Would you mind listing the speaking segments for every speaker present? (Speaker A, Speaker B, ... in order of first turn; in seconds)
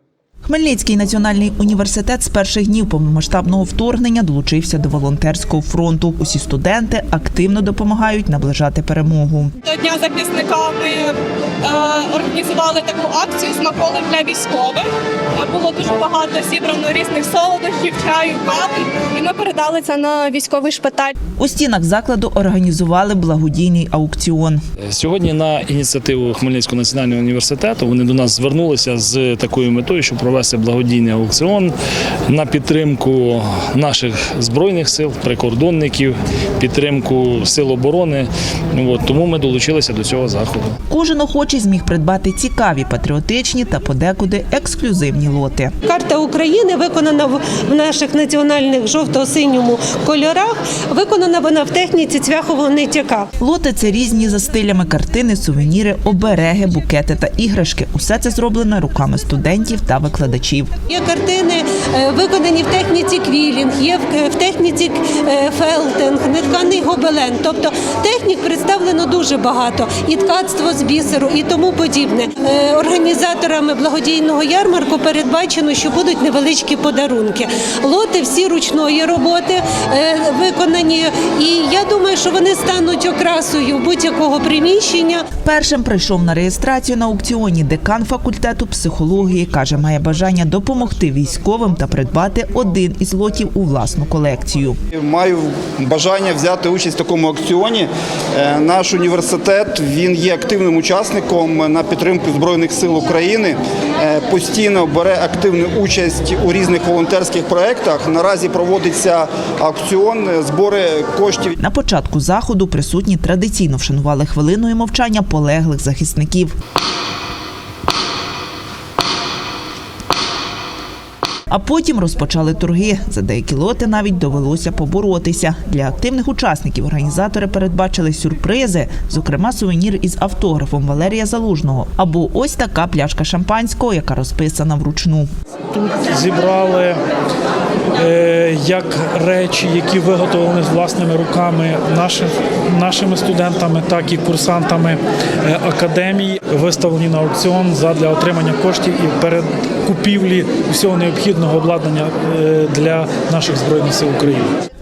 Speaker A: 0.5-9.5, 21.4-24.6, 40.9-45.7, 53.4-60.7, 85.4-94.8, 111.6-116.5, 121.5-135.3
Speaker B: 9.6-21.2
Speaker C: 24.9-31.7, 32.3-40.7
Speaker D: 45.9-53.3, 60.9-85.2
Speaker E: 94.9-111.5
Speaker F: 135.7-137.0, 138.0-154.5